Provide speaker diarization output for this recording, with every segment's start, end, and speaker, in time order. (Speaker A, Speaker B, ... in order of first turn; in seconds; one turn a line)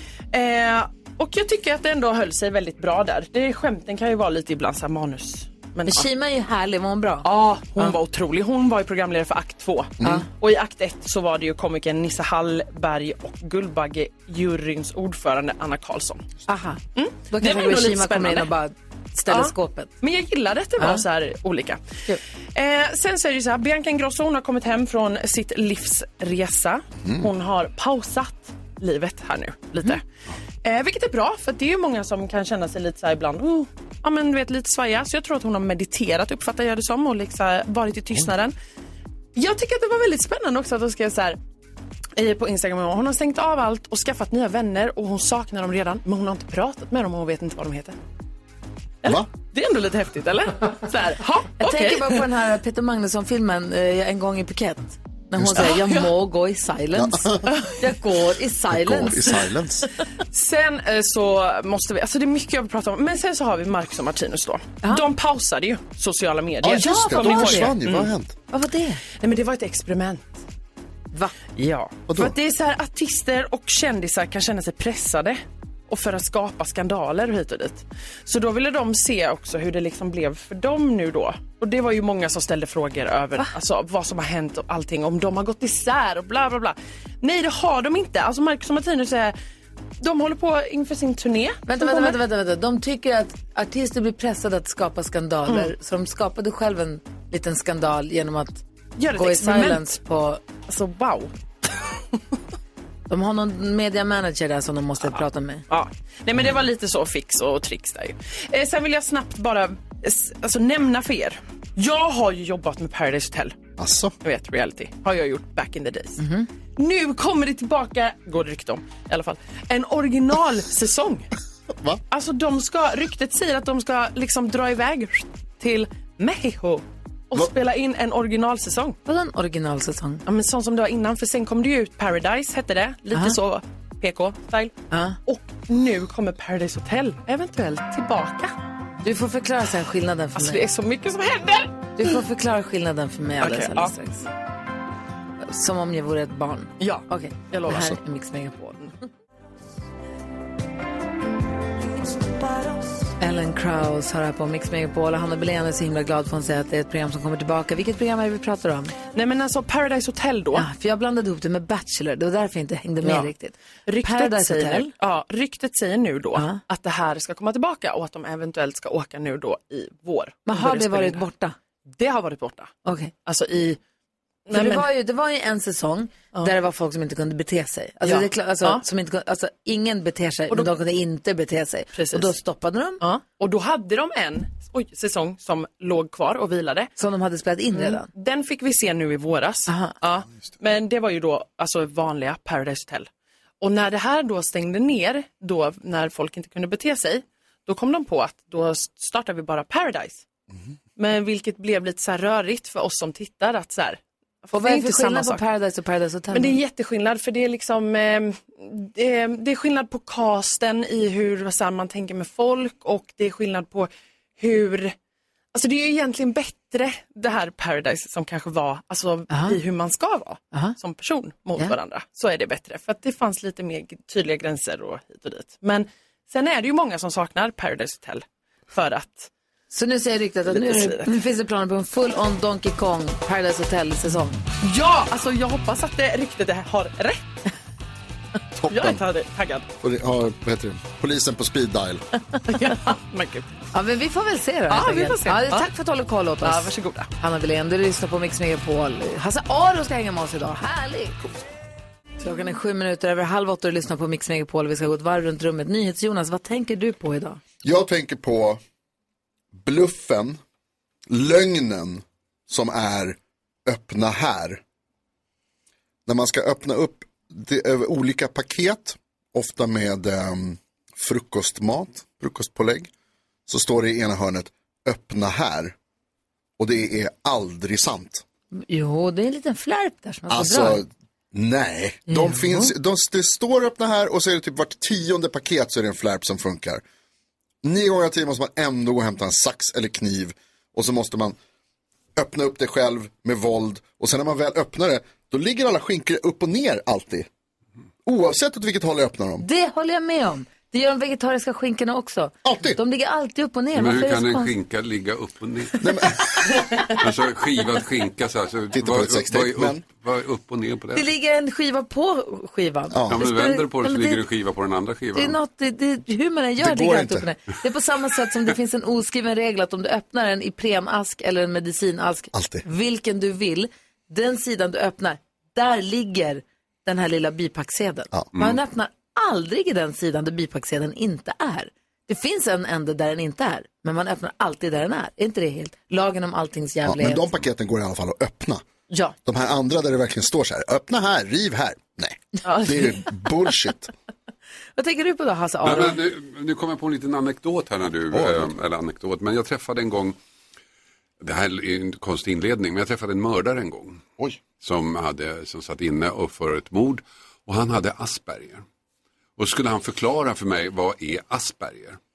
Speaker A: 0.3-6.1
Speaker B: 5.9-8.0
Speaker A: 7.2-16.2
Speaker B: 16.5-19.9
Speaker A: 16.9-18.5
Speaker A: 19.3-21.9
Speaker A: 22.5-30.0
Speaker A: 30.6-38.5
Speaker A: 39.3-41.4
Speaker A: 42.1-48.0
Speaker A: 49.0-52.2
Speaker B: 51.6-59.4
Speaker C: 55.4-55.7
Speaker A: 55.6-56.1
Speaker C: 56.9-57.5
Speaker C: 58.7-59.9
Speaker A: 60.3-68.1
Speaker C: 66.6-68.3
Speaker B: 66.7-67.7
Speaker B: 68.5-69.0
Speaker A: 69.2-70.4
Speaker A: 71.6-89.3
Speaker C: 72.1-72.3
Speaker A: 90.0-92.2
Speaker B: 91.7-98.6
Speaker A: 99.0-100.0
Speaker B: 99.1-100.4
Speaker A: 100.7-101.3
Speaker B: 103.1-105.6
Speaker A: 105.0-113.5
Speaker C: 113.8-114.1
Speaker A: 114.2-116.2
Speaker B: 116.2-116.5
Speaker A: 116.8-121.3
Speaker C: 121.8-122.0
Speaker A: 122.1-129.0
Speaker B: 129.1-130.2
Speaker A: 130.2-138.5
Speaker B: 134.9-135.2
Speaker B: 139.0-140.6
Speaker A: 140.3-142.1
Speaker B: 142.0-144.3
Speaker A: 143.4-143.9
Speaker B: 145.4-148.9
Speaker A: 146.8-148.0
Speaker B: 153.2-158.9
Speaker A: 159.1-160.7
Speaker B: 160.6-164.9
Speaker A: 163.0-163.3
Speaker A: 163.9-171.2
Speaker B: 170.5-171.6
Speaker A: 171.9-172.7
Speaker B: 172.8-173.1
Speaker A: 173.2-173.8
Speaker A: 174.5-174.8
Speaker B: 174.5-183.0
Speaker A: 178.0-178.8
Speaker A: 181.9-182.3
Speaker A: 183.0-186.9
Speaker B: 187.0-188.1
Speaker A: 187.7-193.1
Speaker B: 189.7-189.9
Speaker A: 193.6-200.2
Speaker A: 201.0-205.4
Speaker B: 204.5-206.6
Speaker A: 206.3-214.9
Speaker A: 215.5-229.3
Speaker B: 219.3-219.6
Speaker B: 229.7-234.4
Speaker A: 230.5-231.1
Speaker A: 234.6-237.4
Speaker C: 238.6-239.0
Speaker A: 238.7-239.7
Speaker C: 239.8-242.0
Speaker A: 242.5-243.5
Speaker B: 243.7-251.2
Speaker A: 244.7-245.7
Speaker A: 246.4-247.1
Speaker B: 252.2-257.4
Speaker C: 257.6-258.6
Speaker C: 259.5-260.4
Speaker C: 261.1-264.6
Speaker C: 266.1-272.9
Speaker C: 273.5-275.7
Speaker C: 276.6-278.2
Speaker B: 278.5-280.8
Speaker C: 280.3-286.8
Speaker B: 282.1-282.7
Speaker C: 287.6-291.4
Speaker C: 292.1-297.3
Speaker C: 298.1-299.4
Speaker B: 299.4-304.5
Speaker C: 302.4-302.8
Speaker D: 303.7-305.8
Speaker C: 305.8-306.4
Speaker D: 306.9-311.1
Speaker C: 308.7-309.8
Speaker B: 310.9-314.2
Speaker C: 312.9-313.2
Speaker D: 313.1-315.4
Speaker B: 315.1-337.3
Speaker C: 316.6-317.3
Speaker C: 322.3-322.6
Speaker C: 336.8-338.6
Speaker B: 338.9-339.1
Speaker C: 339.2-343.9
Speaker B: 344.8-346.0
Speaker D: 345.6-350.2
Speaker C: 348.1-348.5
Speaker D: 351.2-354.0
Speaker D: 354.5-358.6
Speaker D: 359.4-362.0